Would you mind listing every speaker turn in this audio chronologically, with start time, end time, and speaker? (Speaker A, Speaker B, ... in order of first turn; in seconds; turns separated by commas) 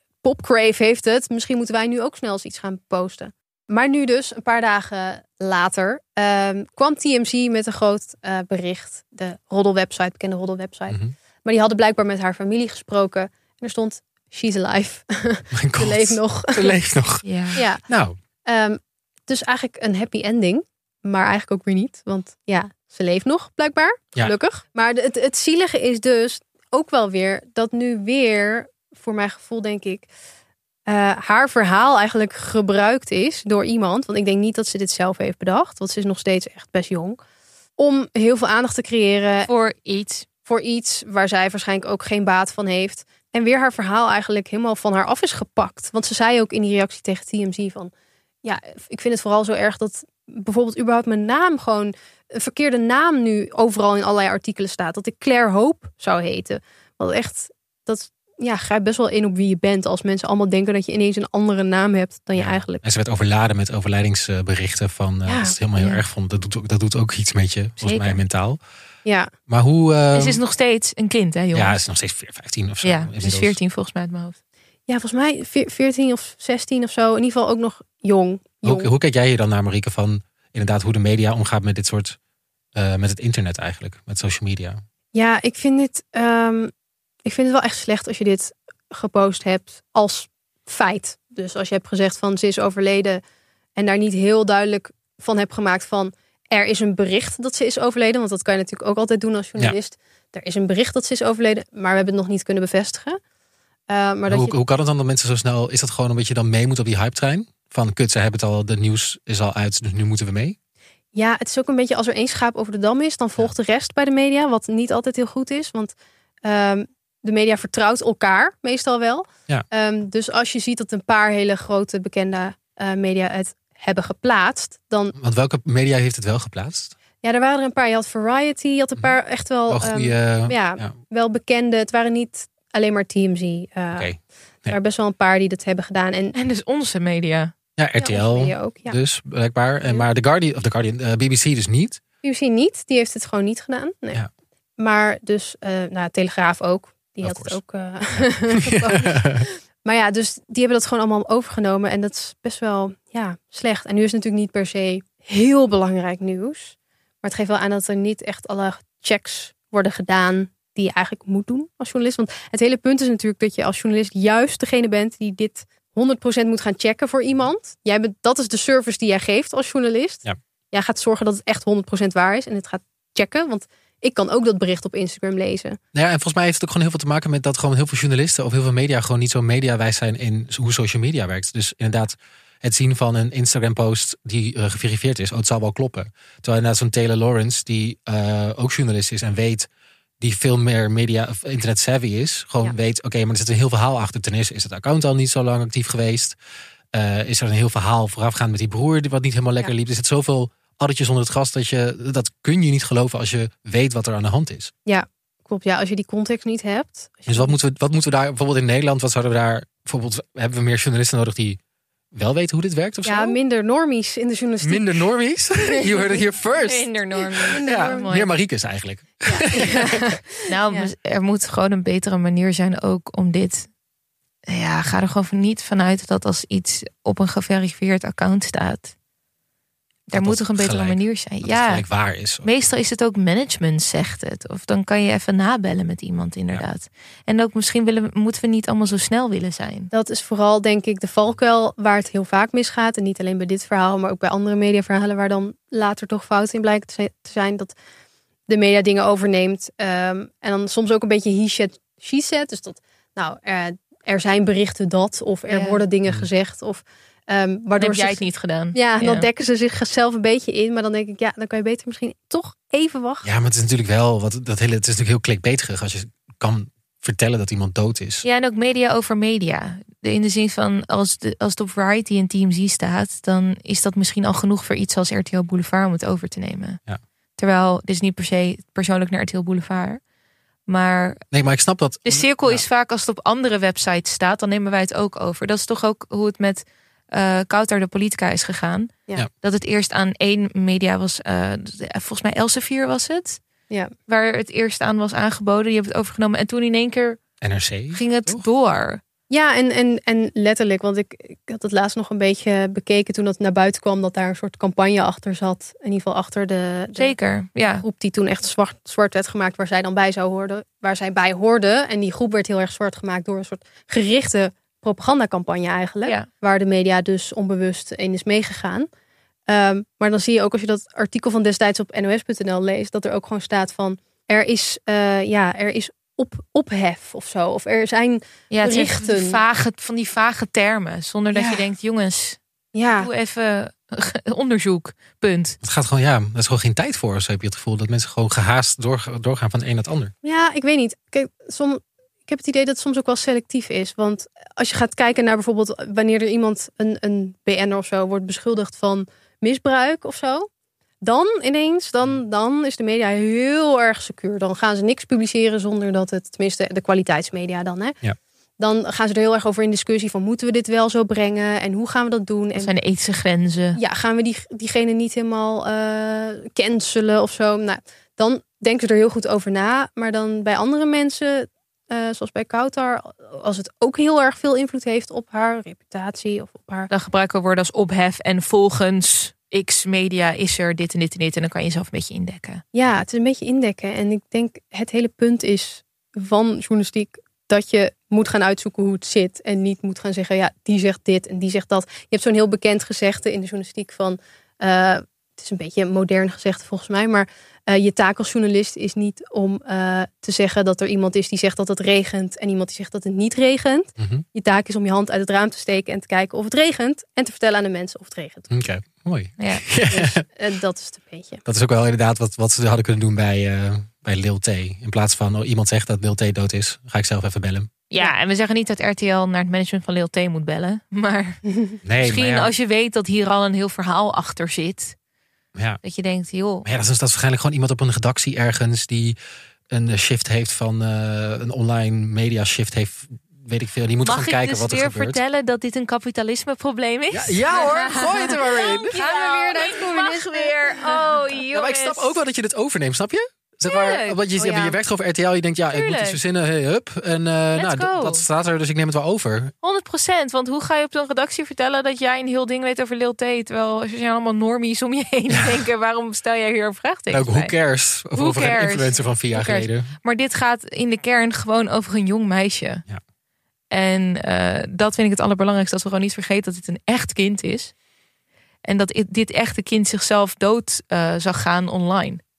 Speaker A: 0.2-16.8, Speaker B: 15.5-17.2, Speaker C: 17.2-17.6, Speaker A: 17.6-17.8, Speaker B: 17.9-18.2, Speaker A: 18.4-30.1, Speaker A: 30.9-37.2, Speaker A: 37.8-39.5, Speaker C: 39.5-40.2, Speaker A: 40.5-47.9, Speaker A: 48.4-62.8, Speaker B: 62.4-68.6, Speaker A: 65.2-65.5, Speaker C: 65.8-66.0, Speaker C: 67.8-68.2, Speaker A: 69.0-69.3, Speaker B: 69.5-70.4, Speaker C: 70.1-71.8, Speaker B: 71.5-73.6, Speaker C: 72.8-74.4, Speaker A: 74.9-78.9, Speaker B: 78.6-82.2, Speaker B: 82.7-84.8, Speaker A: 85.1-86.7, Speaker A: 87.2-93.2, Speaker A: 93.8-103.2, Speaker A: 103.9-104.6, Speaker B: 104.3-110.5, Speaker A: 111.1-125.1, Speaker B: 125.2-126.9, Speaker A: 127.2-134.1, Speaker B: 129.7-130.9, Speaker B: 133.9-134.8, Speaker A: 134.7-136.3, Speaker C: 136.3-137.5, Speaker B: 137.8-142.0, Speaker A: 138.0-139.0, Speaker A: 142.2-144.2, Speaker A: 144.8-175.8, Speaker B: 147.2-147.6, Speaker B: 148.6-149.4, Speaker B: 175.9-189.7, Speaker B: 190.2-196.4, Speaker B: 196.9-204.7, Speaker A: 204.8-207.5, Speaker B: 207.3-211.6, Speaker B: 212.1-213.4, Speaker A: 213.0-214.9, Speaker B: 214.6-216.9, Speaker A: 215.7-216.1, Speaker C: 216.6-218.3, Speaker A: 217.5-218.1, Speaker B: 217.6-220.2, Speaker A: 219.2-220.9, Speaker C: 220.5-223.7, Speaker C: 224.5-228.9, Speaker C: 230.1-231.8, Speaker B: 230.1-232.5, Speaker C: 232.4-239.9, Speaker A: 239.9-247.7, Speaker A: 248.5-263.3, Speaker C: 255.5-255.8, Speaker C: 257.8-259.3, Speaker B: 263.2-268.2, Speaker C: 268.2-276.8, Speaker C: 277.4-280.0, Speaker C: 280.7-281.2, Speaker B: 281.3-282.6, Speaker C: 282.0-293.4, Speaker C: 294.1-297.2, Speaker B: 297.4-298.4, Speaker C: 297.9-299.0, Speaker A: 299.3-307.1, Speaker C: 306.9-307.8, Speaker A: 307.8-318.9, Speaker A: 319.5-329.4, Speaker C: 328.5-332.4, Speaker A: 331.3-331.6, Speaker A: 332.7-333.1, Speaker C: 333.0-335.6, Speaker B: 335.6-340.1, Speaker A: 340.2-350.5, Speaker A: 351.0-358.0, Speaker A: 358.6-362.7, Speaker C: 362.5-363.8, Speaker A: 363.8-376.9, Speaker C: 376.9-382.6, Speaker A: 382.7-408.5, Speaker B: 404.0-404.2, Speaker B: 408.5-410.2, Speaker C: 409.4-409.6, Speaker A: 409.9-411.4, Speaker B: 411.4-417.7, Speaker C: 417.9-421.4, Speaker A: 421.5-421.8, Speaker B: 421.8-422.5, Speaker C: 422.0-424.9, Speaker B: 425.5-425.8, Speaker C: 425.8-426.6, Speaker B: 426.6-429.2, Speaker B: 429.7-435.2, Speaker C: 434.0-442.1, Speaker B: 437.1-439.0, Speaker A: 438.4-441.2, Speaker B: 441.5-449.5, Speaker C: 443.6-444.2, Speaker A: 444.4-444.8, Speaker C: 445.7-446.2, Speaker C: 447.5-448.2, Speaker C: 449.6-457.5, Speaker B: 457.1-459.9, Speaker C: 458.1-462.8, Speaker C: 463.7-467.7, Speaker C: 468.6-472.2